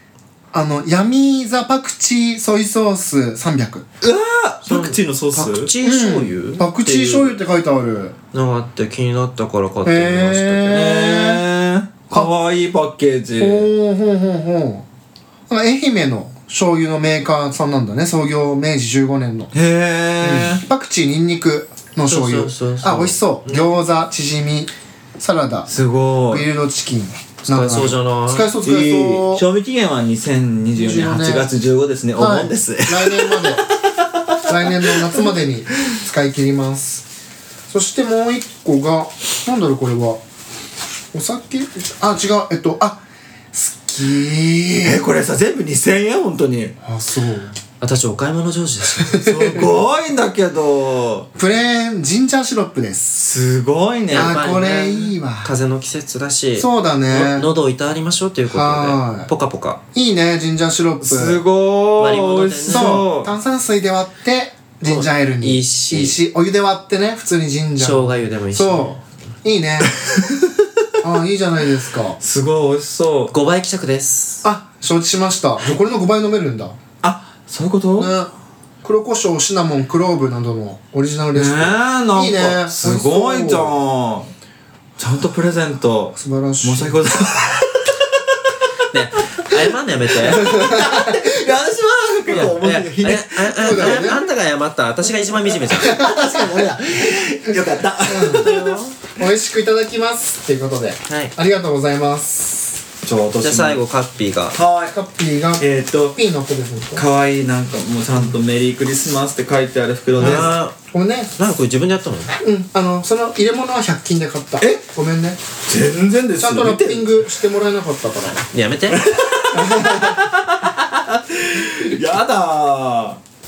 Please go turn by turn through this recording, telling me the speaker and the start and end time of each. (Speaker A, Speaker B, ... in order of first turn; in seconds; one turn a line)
Speaker A: 0.5-3.9
Speaker B: 4.0-5.7
Speaker C: 4.7-7.4
Speaker A: 5.8-8.2
Speaker C: 8.3-10.9
Speaker A: 9.8-11.5
Speaker B: 10.7-13.7
Speaker A: 13.4-14.9
Speaker A: 15.5-19.5
Speaker B: 19.5-20.6
Speaker A: 20.2-25.7
Speaker C: 22.1-23.7
Speaker B: 25.7-26.4
Speaker A: 26.3-29.4
Speaker C: 27.5-28.5
Speaker B: 28.6-33.6
Speaker A: 30.7-31.5
Speaker A: 32.2-33.6
Speaker A: 34.5-37.1
Speaker B: 34.8-35.1
Speaker A: 37.7-40.2
Speaker A: 41.1-43.0
Speaker A: 43.5-45.0
Speaker B: 44.8-46.7
Speaker A: 46.8-47.6
Speaker C: 47.8-49.3
Speaker A: 49.0-49.7
Speaker B: 49.2-51.3
Speaker A: 51.4-53.2
Speaker B: 53.2-54.4
Speaker C: 54.1-59.8
Speaker A: 54.1-55.5
Speaker A: 56.6-57.5
Speaker A: 58.5-59.3
Speaker A: 59.9-61.4
Speaker B: 61.0-63.3
Speaker C: 62.0-63.0
Speaker A: 62.7-70.0
Speaker C: 64.8-66.2
Speaker C: 67.8-69.0
Speaker B: 70.2-70.5
Speaker A: 71.0-72.2
Speaker B: 72.2-73.3
Speaker C: 73.3-74.4
Speaker A: 74.4-76.8
Speaker B: 77.0-78.1
Speaker A: 78.0-83.7
Speaker B: 81.3-84.3
Speaker B: 85.0-88.2
Speaker A: 86.2-87.2
Speaker C: 88.9-90.6
Speaker B: 90.2-94.1
Speaker A: 90.3-91.3
Speaker C: 92.3-97.2
Speaker A: 93.5-94.3
Speaker A: 95.8-96.5
Speaker B: 95.8-98.8
Speaker A: 98.1-98.5
Speaker C: 98.3-99.0
Speaker A: 99.2-102.8
Speaker C: 101.1-101.3
Speaker B: 103.0-103.8
Speaker C: 103.4-104.6
Speaker B: 104.5-105.0
Speaker A: 104.9-107.1
Speaker B: 105.6-106.2
Speaker B: 107.0-110.7
Speaker C: 110.2-110.8
Speaker A: 110.2-111.3
Speaker C: 111.4-112.4
Speaker A: 112.4-115.4
Speaker B: 115.7-117.2
Speaker A: 116.4-118.5
Speaker C: 118.5-119.1
Speaker B: 118.9-123.2
Speaker A: 119.5-120.2